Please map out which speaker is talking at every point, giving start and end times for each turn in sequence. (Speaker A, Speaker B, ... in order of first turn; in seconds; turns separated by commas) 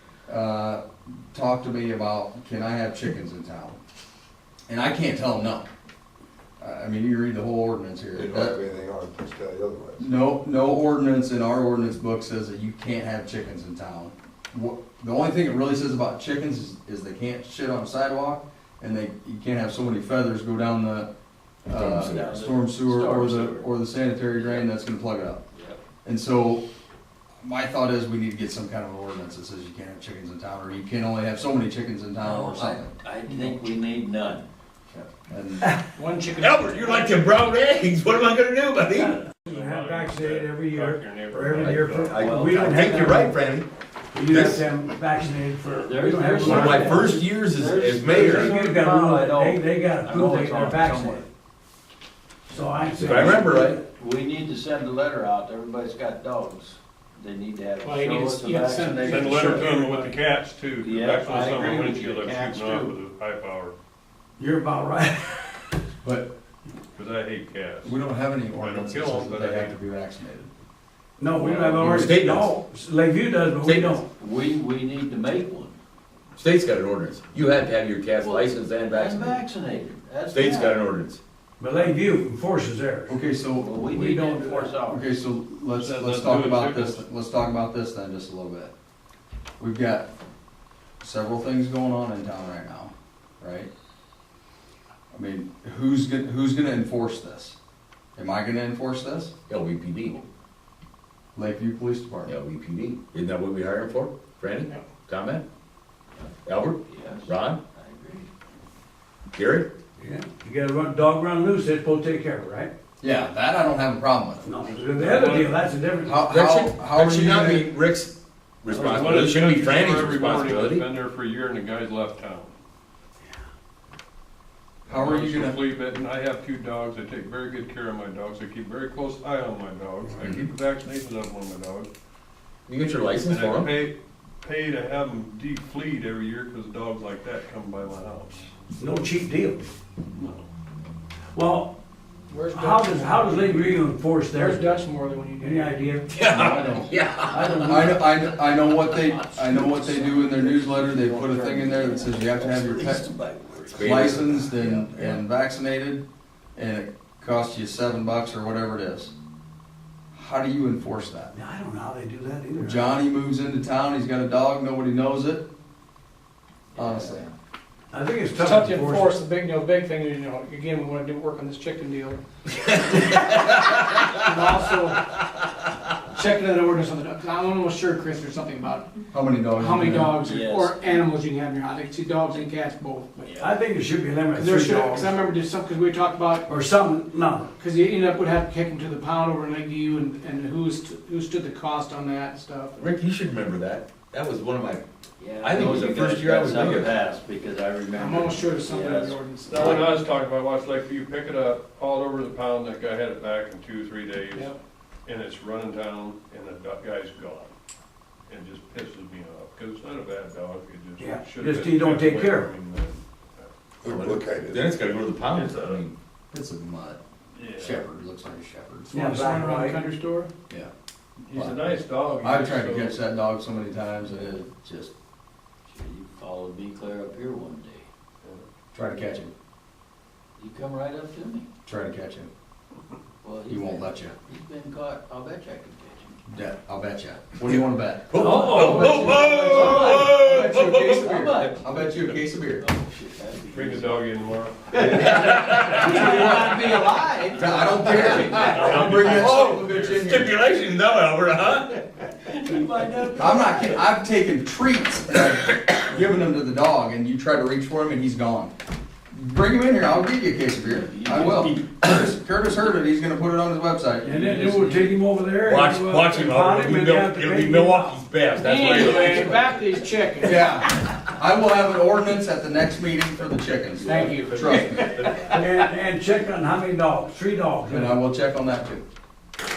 Speaker A: 0.3-3.8, Speaker A: 4.7-5.7, Speaker A: 6.6-8.6, Speaker B: 8.1-10.1, Speaker A: 10.0-21.1, Speaker A: 21.6-25.4, Speaker C: 21.7-22.4, Speaker D: 22.0-23.7, Speaker D: 24.3-24.7, Speaker D: 25.5-25.8, Speaker A: 26.0-26.6, Speaker A: 27.4-33.6, Speaker D: 32.2-34.5, Speaker A: 34.9-35.7, Speaker E: 35.9-37.3, Speaker C: 36.3-39.2, Speaker F: 38.9-43.4, Speaker G: 39.4-42.2, Speaker C: 41.6-43.7, Speaker D: 42.2-43.1, Speaker F: 44.1-47.2, Speaker C: 44.3-44.6, Speaker D: 45.7-51.3, Speaker C: 46.4-48.5, Speaker F: 48.1-51.2, Speaker F: 52.5-53.8, Speaker C: 53.0-53.8, Speaker D: 53.4-60.2, Speaker E: 57.8-59.8, Speaker G: 59.0-63.7, Speaker D: 60.8-63.0, Speaker F: 64.4-65.8, Speaker A: 66.0-66.3, Speaker G: 66.9-68.0, Speaker A: 67.8-70.5, Speaker G: 68.5-69.8, Speaker F: 71.2-74.1, Speaker C: 71.8-72.5, Speaker C: 73.6-74.0, Speaker D: 74.2-75.8, Speaker C: 76.4-79.4, Speaker D: 78.2-80.8, Speaker C: 80.3-81.2, Speaker F: 81.6-83.2, Speaker A: 83.1-83.7, Speaker D: 83.5-85.1, Speaker F: 83.9-84.7, Speaker A: 84.9-88.7, Speaker G: 85.7-87.0, Speaker A: 89.6-90.1, Speaker A: 91.0-93.7, Speaker A: 95.1-97.5, Speaker A: 98.2-99.3, Speaker C: 99.5-100.2, Speaker A: 101.3-102.3, Speaker C: 102.2-105.4, Speaker C: 106.4-107.6, Speaker D: 106.9-108.3, Speaker C: 109.3-109.7, Speaker F: 110.0-112.7, Speaker A: 113.0-114.5, Speaker F: 114.4-116.5, Speaker G: 114.7-115.5, Speaker A: 116.0-117.7, Speaker C: 116.3-120.8, Speaker F: 118.7-119.1, Speaker G: 118.8-122.5, Speaker A: 124.9-125.6, Speaker G: 124.9-131.9, Speaker C: 132.7-133.7, Speaker G: 133.2-138.5, Speaker F: 138.8-139.7, Speaker G: 140.2-140.4, Speaker F: 141.3-141.7, Speaker E: 142.3-143.8, Speaker F: 142.5-144.8, Speaker E: 144.3-146.8, Speaker F: 145.4-146.1, Speaker C: 146.1-147.9, Speaker F: 147.3-148.0, Speaker A: 147.6-153.1, Speaker D: 151.2-154.1, Speaker C: 153.7-154.3, Speaker A: 153.8-159.1, Speaker A: 160.1-161.3, Speaker F: 161.3-162.9, Speaker A: 162.6-165.5, Speaker D: 166.7-167.3, Speaker A: 166.8-167.2, Speaker F: 167.9-169.1, Speaker E: 168.3-172.2, Speaker E: 173.0-175.1, Speaker E: 176.1-183.4, Speaker A: 179.1-180.2, Speaker D: 180.2-181.0, Speaker D: 183.3-183.5, Speaker F: 183.4-185.1, Speaker E: 184.3-186.5, Speaker F: 186.5-187.5, Speaker E: 187.6-192.8, Speaker C: 192.8-194.8, Speaker D: 195.2-199.9, Speaker C: 195.4-197.0, Speaker E: 197.9-199.9, Speaker G: 199.4-204.5, Speaker G: 205.1-207.5, Speaker G: 208.3-213.5, Speaker F: 211.0-212.5, Speaker B: 213.8-214.7, Speaker C: 213.8-215.9, Speaker G: 215.3-215.8, Speaker A: 216.3-217.0, Speaker G: 217.3-217.8, Speaker A: 217.6-219.0, Speaker E: 218.9-220.3, Speaker F: 218.9-219.8, Speaker G: 221.3-223.0, Speaker A: 221.3-221.6, Speaker A: 222.2-224.9, Speaker D: 224.0-224.4, Speaker D: 225.7-227.8, Speaker A: 228.7-229.3, Speaker D: 230.4-231.4, Speaker A: 231.6-232.3, Speaker D: 233.2-236.2, Speaker A: 233.5-234.1, Speaker A: 236.3-242.7, Speaker C: 238.1-241.5, Speaker D: 238.1-244.1, Speaker F: 238.2-239.1, Speaker E: 238.7-239.3, Speaker G: 243.5-246.5, Speaker D: 244.7-248.9, Speaker C: 244.8-246.2, Speaker A: 246.0-250.3, Speaker G: 247.9-250.2, Speaker C: 248.9-251.8, Speaker D: 252.0-253.9, Speaker A: 253.2-258.5, Speaker A: 259.1-264.2, Speaker D: 260.6-261.7, Speaker D: 264.0-264.9, Speaker F: 264.0-268.0, Speaker C: 265.4-269.5, Speaker E: 268.4-270.6, Speaker F: 269.0-269.4, Speaker A: 270.2-275.4, Speaker E: 273.8-275.7, Speaker F: 275.4-277.9, Speaker A: 277.6-278.8